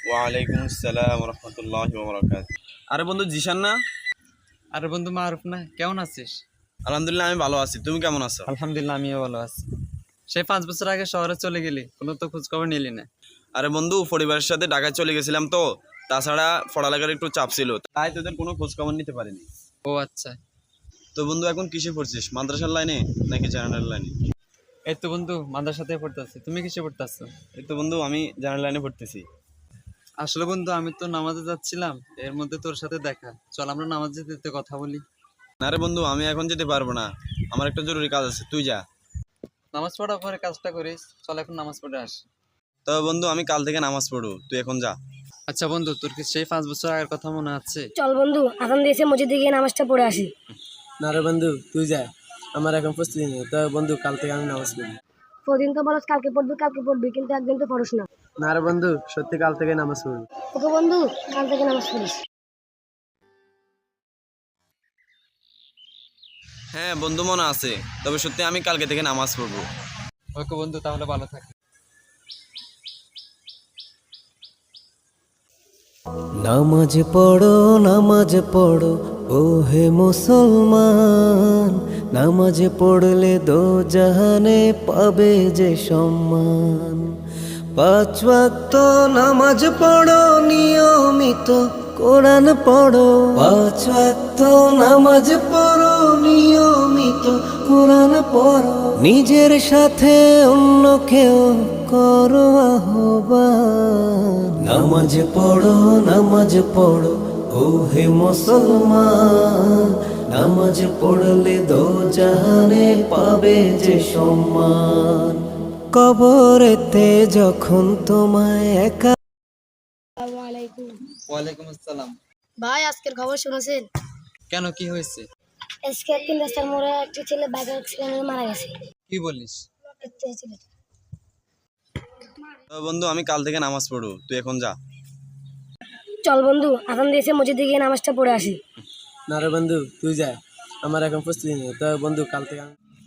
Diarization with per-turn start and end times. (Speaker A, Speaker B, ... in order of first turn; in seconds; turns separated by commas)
Speaker A: 0.1-3.7, Speaker B: 4.7-6.4, Speaker A: 6.9-8.5, Speaker B: 8.5-9.6, Speaker B: 10.3-13.1, Speaker A: 13.6-19.4, Speaker B: 19.9-20.4, Speaker A: 21.1-24.1, Speaker B: 24.9-27.4, Speaker A: 27.6-29.2, Speaker B: 30.2-35.0, Speaker A: 35.6-38.8, Speaker B: 39.7-42.2, Speaker A: 42.9-44.9, Speaker B: 45.5-47.9, Speaker C: 48.0-50.3, Speaker D: 51.0-55.0, Speaker C: 55.5-58.1, Speaker D: 58.4-60.3, Speaker C: 60.5-62.2, Speaker A: 66.7-69.6, Speaker B: 70.3-71.5, Speaker E: 76.4-87.2, Speaker E: 87.7-119.1, Speaker C: 120.2-121.0, Speaker B: 121.3-122.2, Speaker C: 122.6-123.8, Speaker B: 124.5-125.2, Speaker C: 125.8-128.7, Speaker B: 129.1-129.6, Speaker C: 130.0-130.6, Speaker A: 132.8-134.7, Speaker C: 136.2-138.6, Speaker D: 139.3-142.7